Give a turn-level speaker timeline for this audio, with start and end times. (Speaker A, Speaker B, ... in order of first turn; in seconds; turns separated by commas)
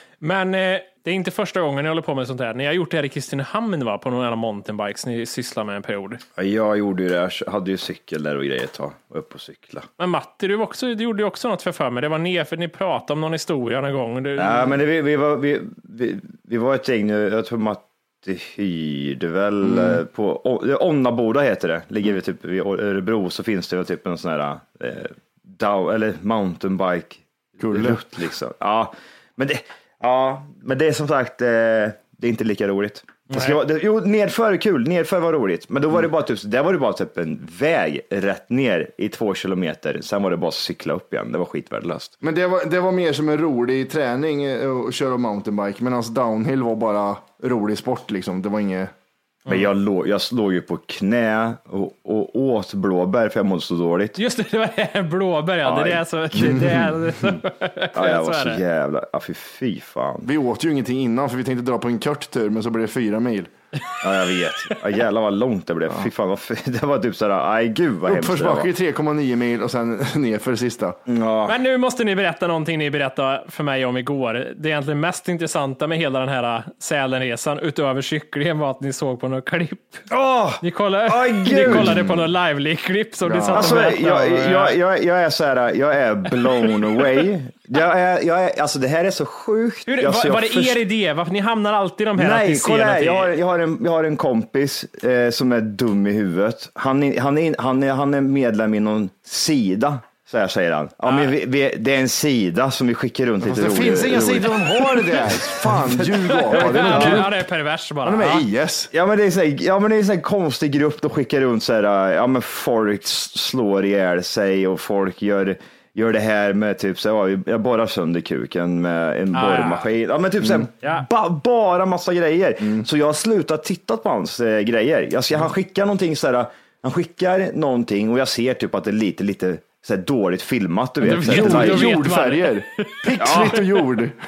Speaker A: 0.2-6.2, Speaker B: 6.4-9.9, Speaker A: 10.0-14.7, Speaker B: 14.4-42.1, Speaker C: 19.6-20.0, Speaker C: 27.6-28.0, Speaker A: 33.3-33.6, Speaker C: 42.2-48.9, Speaker B: 49.5-54.2, Speaker A: 54.2-58.6, Speaker B: 55.6-56.9, Speaker C: 56.4-56.9, Speaker B: 57.9-60.3, Speaker C: 60.2-63.5, Speaker B: 64.0-68.7, Speaker C: 68.1-71.0, Speaker B: 71.1-71.6, Speaker A: 71.5-80.1, Speaker B: 80.1-82.1, Speaker A: 80.6-84.8, Speaker C: 81.7-82.2, Speaker C: 83.2-83.9, Speaker B: 83.5-90.8, Speaker A: 86.6-87.0, Speaker A: 89.9-93.3, Speaker B: 92.2-107.3, Speaker A: 101.0-101.3, Speaker C: 103.4-107.3, Speaker A: 106.5-108.5, Speaker C: 108.0-108.9, Speaker B: 108.9-132.0, Speaker A: 119.3-119.9, Speaker A: 131.0-133.6, Speaker C: 131.0-134.2, Speaker B: 133.2-133.6